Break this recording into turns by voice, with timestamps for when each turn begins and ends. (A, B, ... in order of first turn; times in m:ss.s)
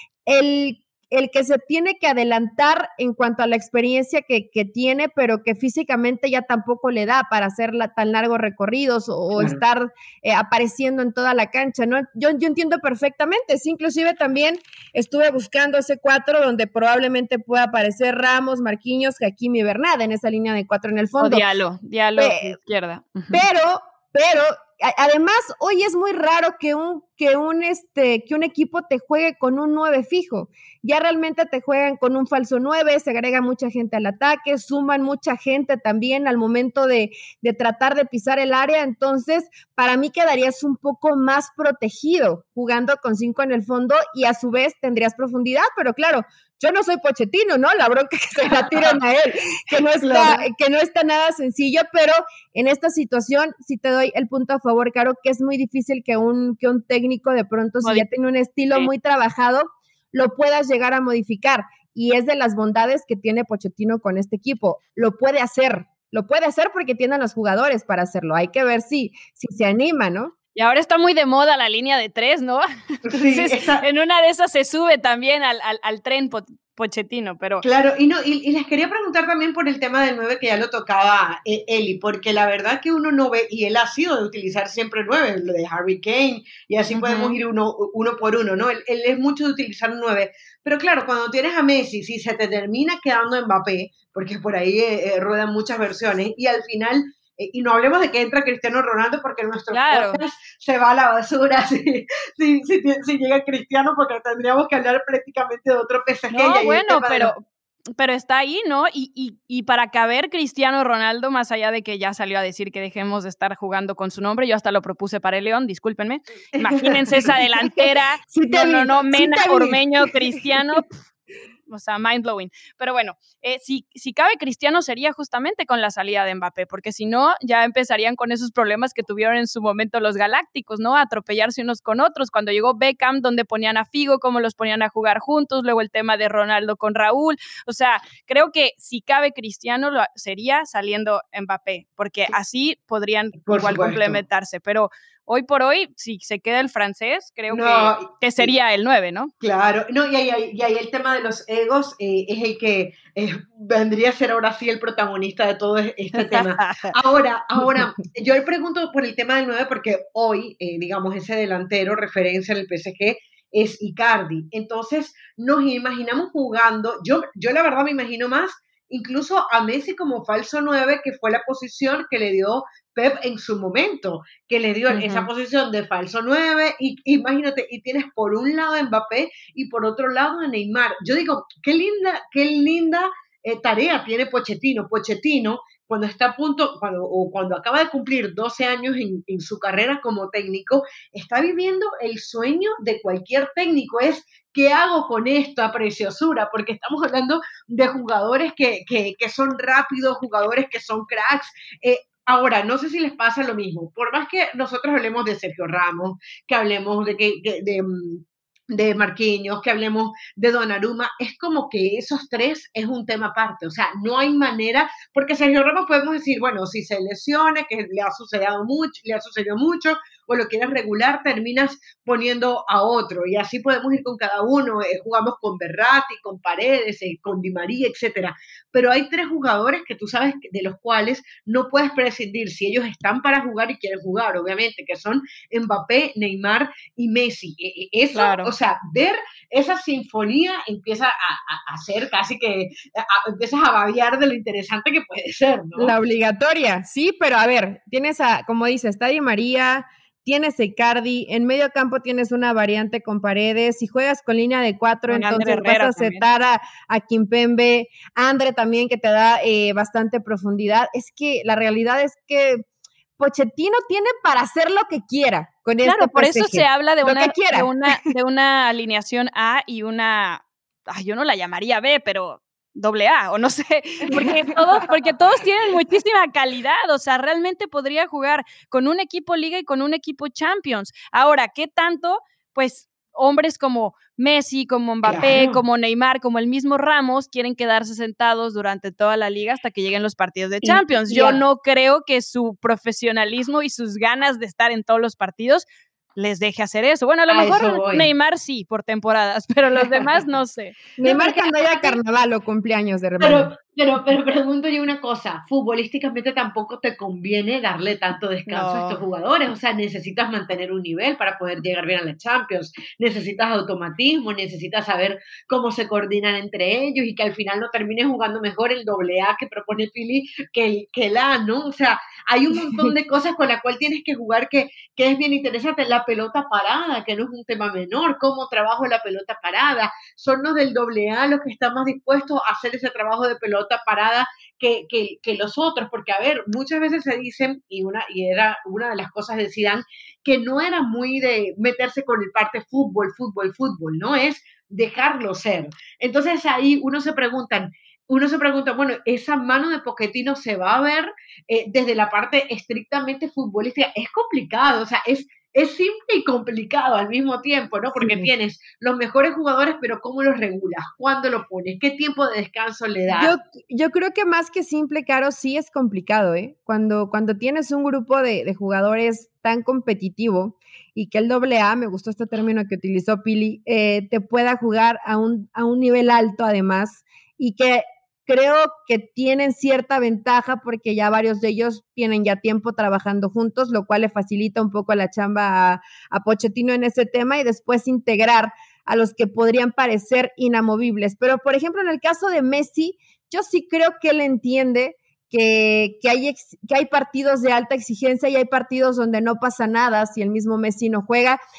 0:00.2-0:21.4 A
0:21.2-0:23.4 B
0:22.2-0:22.6 A
0:23.3-1:10.3 A
0:48.5-0:49.0 C
0:50.0-0:50.4 C
1:10.5-1:17.6 B
1:13.1-1:13.8 C
1:17.6-1:47.3 C
1:26.9-1:27.4 B
1:39.7-1:40.2 B
1:46.3-1:47.4 B
1:48.0-2:01.0 B
1:56.6-1:57.2 C
1:57.8-2:00.6 A
2:01.7-2:29.3 B
2:23.5-2:24.2 C
2:27.5-2:28.5 C
2:29.4-4:05.9 C
2:36.1-2:36.9 B
2:54.9-2:55.3 B
3:58.1-3:58.5 B
4:05.8-4:22.6 A
4:15.1-4:16.2 B
4:23.2-4:28.0 A
4:25.8-5:00.9 B
4:34.1-4:34.8 A
4:45.0-4:45.6 C
4:50.6-4:51.4 C
4:57.3-4:58.1 C
4:59.8-5:00.1 C
5:01.0-5:03.5 A
5:01.0-5:01.7 C
5:03.2-6:03.3 C
5:08.5-5:09.0 B
5:58.0-5:58.3 A
6:03.1-6:41.4 A